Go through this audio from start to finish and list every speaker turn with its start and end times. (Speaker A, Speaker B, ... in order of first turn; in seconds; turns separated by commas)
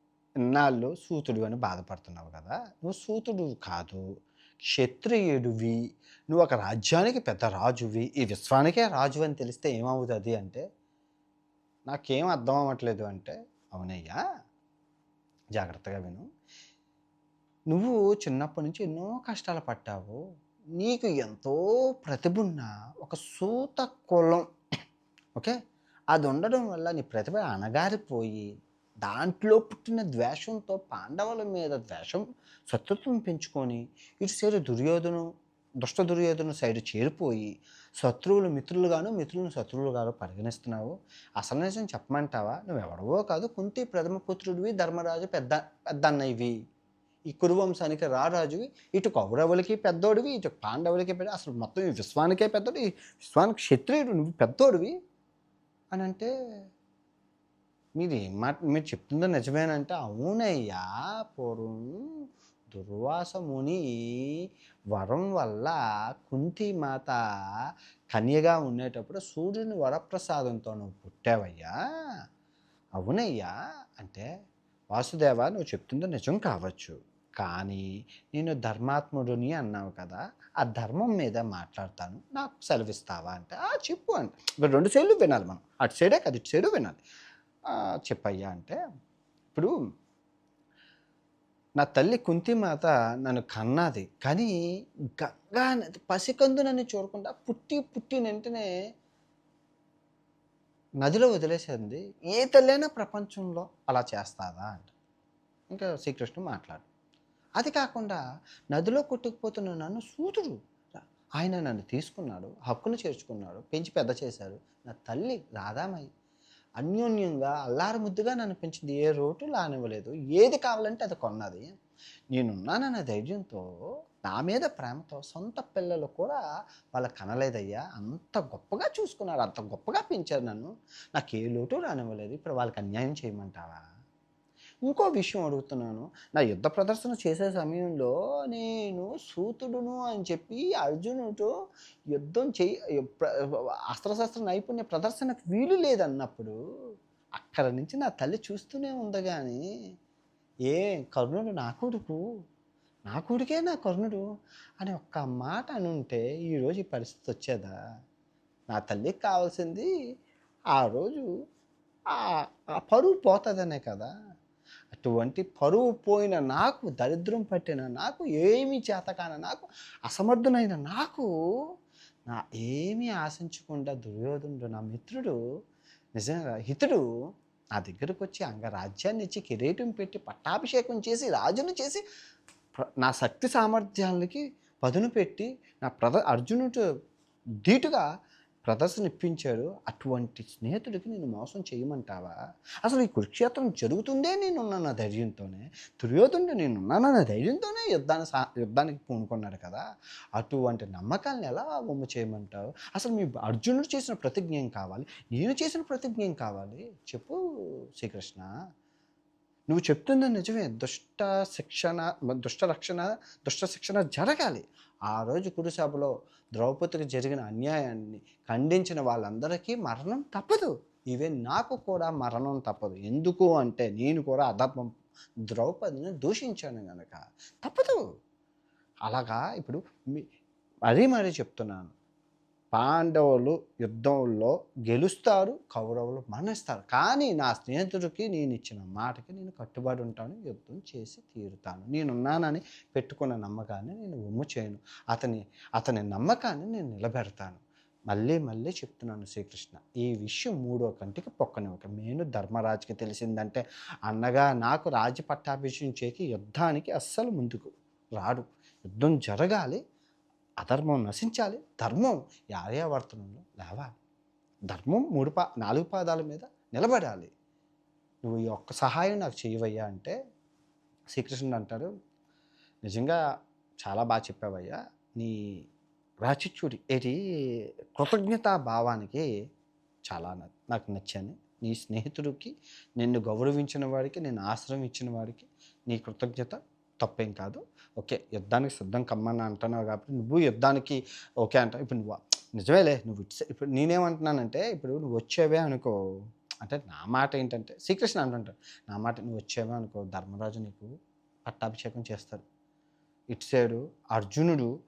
Speaker A: 0.4-4.0, Speaker A: 4.7-5.8, Speaker A: 6.3-10.6, Speaker A: 11.9-14.2, Speaker A: 15.6-16.2, Speaker A: 17.7-20.2, Speaker A: 20.8-24.4, Speaker A: 26.1-28.5, Speaker A: 29.0-35.2, Speaker A: 35.8-46.5, Speaker A: 47.3-54.9, Speaker A: 55.9-56.3, Speaker A: 58.0-62.0, Speaker A: 62.7-64.3, Speaker A: 64.9-67.2, Speaker A: 68.1-71.7, Speaker A: 73.0-74.2, Speaker A: 74.9-87.0, Speaker A: 88.1-88.8, Speaker A: 91.8-94.5, Speaker A: 95.2-98.7, Speaker A: 101.0-104.9, Speaker A: 105.7-106.8, Speaker A: 107.6-108.2, Speaker A: 108.7-110.6, Speaker A: 111.4-116.1, Speaker A: 116.8-121.7, Speaker A: 122.3-123.6, Speaker A: 124.3-126.4, Speaker A: 126.9-133.8, Speaker A: 134.8-141.5, Speaker A: 142.1-146.5, Speaker A: 147.4-149.6, Speaker A: 150.7-152.2, Speaker A: 153.1-154.2, Speaker A: 154.8-157.7, Speaker A: 158.7-159.9, Speaker A: 160.8-161.3, Speaker A: 162.1-164.1, Speaker A: 164.9-171.3, Speaker A: 172.3-175.3, Speaker A: 176.2-177.0, Speaker A: 177.8-182.0, Speaker A: 182.8-186.8, Speaker A: 187.6-188.0, Speaker A: 188.6-199.8, Speaker A: 200.3-207.4, Speaker A: 208.0-208.5, Speaker A: 209.7-224.9, Speaker A: 225.5-228.0, Speaker A: 229.1-230.2, Speaker A: 230.9-231.9, Speaker A: 232.7-259.8, Speaker A: 260.6-263.9, Speaker A: 264.7-267.3, Speaker A: 268.2-270.1, Speaker A: 271.1-271.9, Speaker A: 272.8-273.2, Speaker A: 273.8-275.4, Speaker A: 276.2-277.2, Speaker A: 277.9-279.2, Speaker A: 280.1-295.9, Speaker A: 296.6-300.9, Speaker A: 301.4-302.4, Speaker A: 303.3-304.7